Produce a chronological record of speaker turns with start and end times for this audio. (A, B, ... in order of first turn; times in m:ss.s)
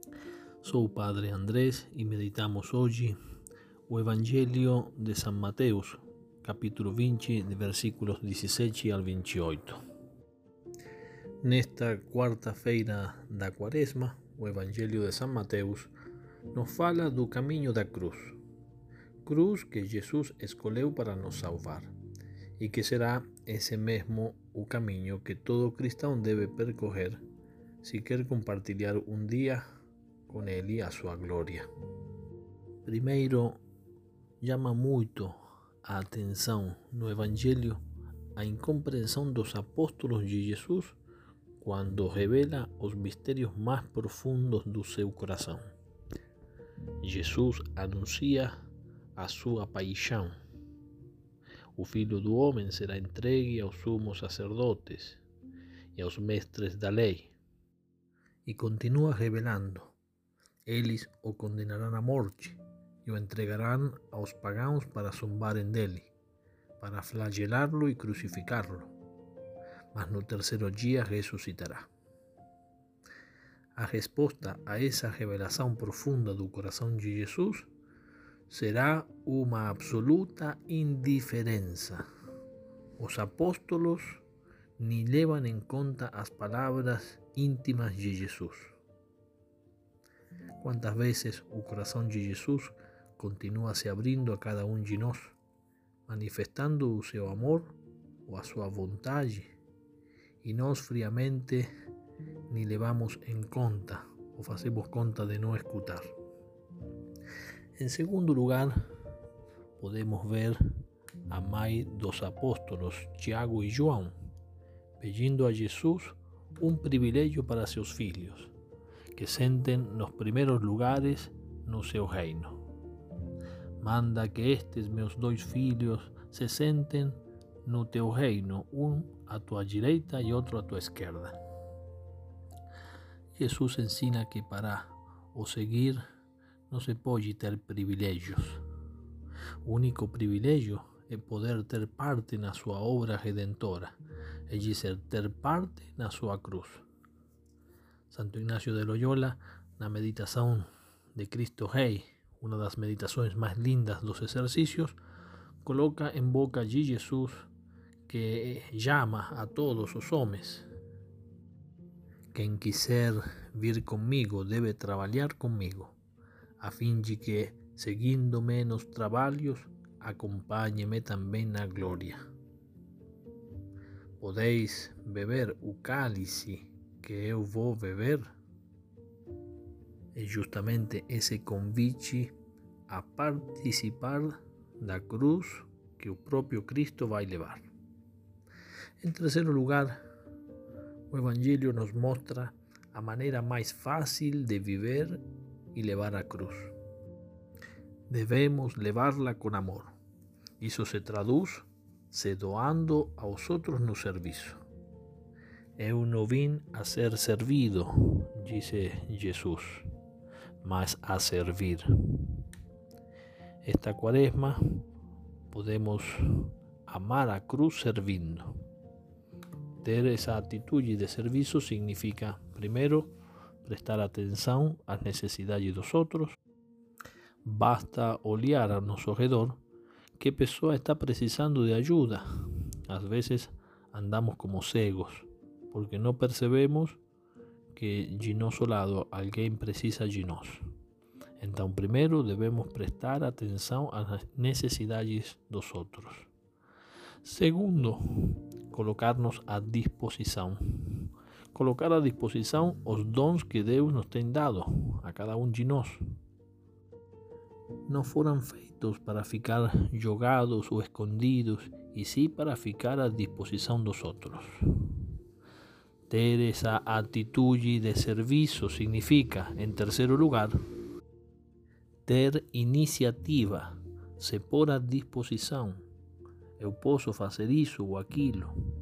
0:00.6-0:03.2 A
0:03.9-0:09.8 A
0:11.4-0:15.9 A
0:16.5-0:18.4 A
0:19.2-0:21.9 A
0:22.6-0:27.2 A
0:27.8-0:29.6 A
0:30.3-0:31.7 A
0:32.8-0:33.6 A
0:34.4-0:37.8 A
0:38.4-0:41.0 A
0:41.6-0:45.7 A
0:47.0-0:48.6 A
0:49.2-0:50.4 A
0:51.7-0:55.2 A
0:55.9-0:57.3 A
0:58.4-1:00.0 A
1:00.6-1:06.1 A
1:06.8-1:08.9 A
1:09.9-1:11.9 A
1:13.7-1:17.7 A
1:18.5-1:22.0 A
1:23.0-1:24.2 A
1:24.8-1:28.8 A
1:30.6-1:35.4 A
1:36.1-1:39.5 A
1:40.4-1:41.7 A
1:42.5-1:46.1 A
1:47.8-1:48.8 A
1:49.8-1:50.7 A
1:51.3-1:54.1 A
1:55.0-1:58.5 A
1:59.1-2:02.6 A
2:03.8-2:11.4 A
2:13.4-2:16.0 A
2:16.7-2:18.6 A
2:19.6-2:23.9 A
2:24.5-2:26.8 A
2:28.1-2:35.0 A
2:35.6-2:37.5 A
2:38.0-2:40.7 A
2:42.3-2:45.9 A
2:46.6-2:52.2 A
2:54.2-2:58.3 A
3:00.1-3:02.3 A
3:02.9-3:07.7 A
3:09.0-3:10.0 A
3:11.1-3:15.2 A
3:15.7-3:16.7 A
3:18.1-3:19.9 A
3:20.6-3:24.6 A
3:25.8-3:29.9 A
3:30.6-3:32.4 A
3:33.6-3:34.6 A
3:35.5-3:38.5 A
3:39.8-3:43.1 A
3:43.6-3:46.4 A
3:47.4-3:49.6 A
3:50.2-3:52.2 A
3:52.9-3:57.0 A
3:57.7-4:00.6 A
4:01.4-4:06.3 A
4:07.2-4:16.0 A
4:17.9-4:25.0 A
4:26.1-4:30.6 A
4:32.0-4:35.8 A
4:36.6-4:38.6 A